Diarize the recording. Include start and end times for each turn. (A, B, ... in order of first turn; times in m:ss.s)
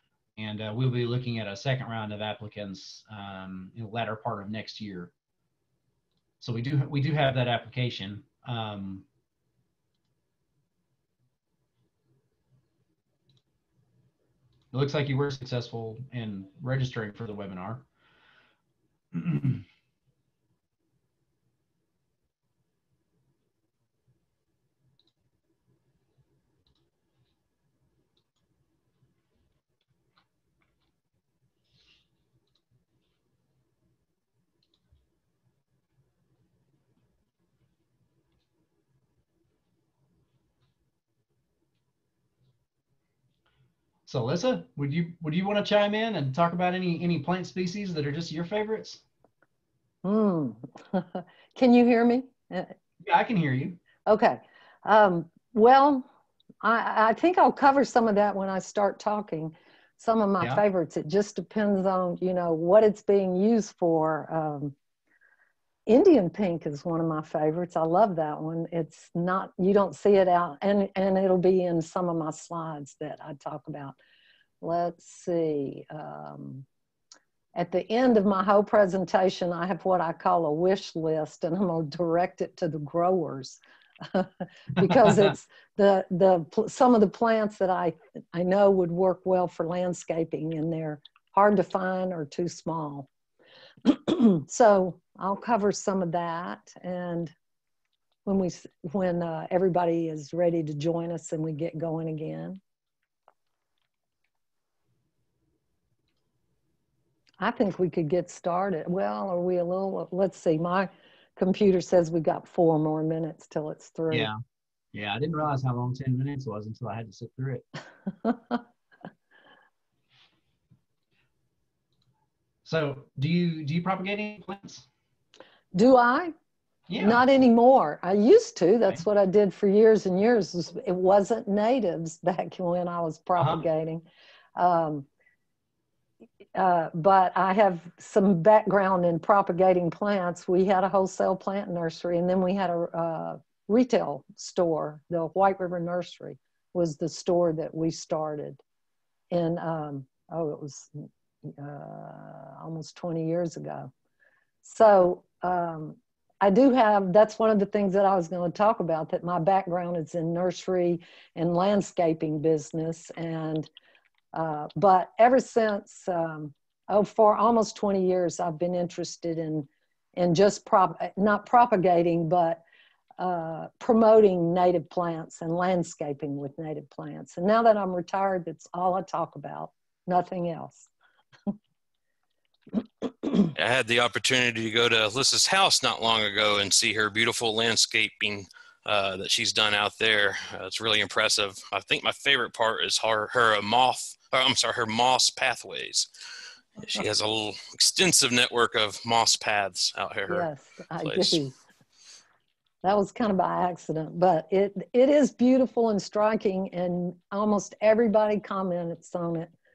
0:00.4-0:05.1 A
0:06.4-0:09.0 A
0:14.7-0:17.9 A
0:19.1-0:19.6 A
0:44.1-0:49.0 A
0:50.0-0:52.7 B
0:53.0-0:53.8 A
0:54.0-0:56.0 B
0:56.6-1:04.7 B
1:05.9-1:14.0 B
1:14.6-1:16.6 B
1:17.6-1:33.1 B
1:33.8-1:37.3 B
1:38.3-1:42.6 B
1:47.4-1:54.3 B
1:54.9-1:57.6 A
1:58.2-1:58.6 B
2:02.6-2:04.9 A
2:05.7-2:06.3 B
2:06.9-2:07.2 A
2:07.0-2:14.0 B
2:13.4-2:13.6 A
2:14.6-2:15.0 B
2:16.6-2:28.6 B
2:29.3-2:33.9 B
2:34.6-2:43.7 B
2:44.3-2:52.6 B
2:53.2-3:00.9 B
3:03.6-3:16.1 C
3:16.8-3:20.5 C
3:20.3-3:21.5 B
3:21.0-3:21.4 C
3:22.8-3:29.5 B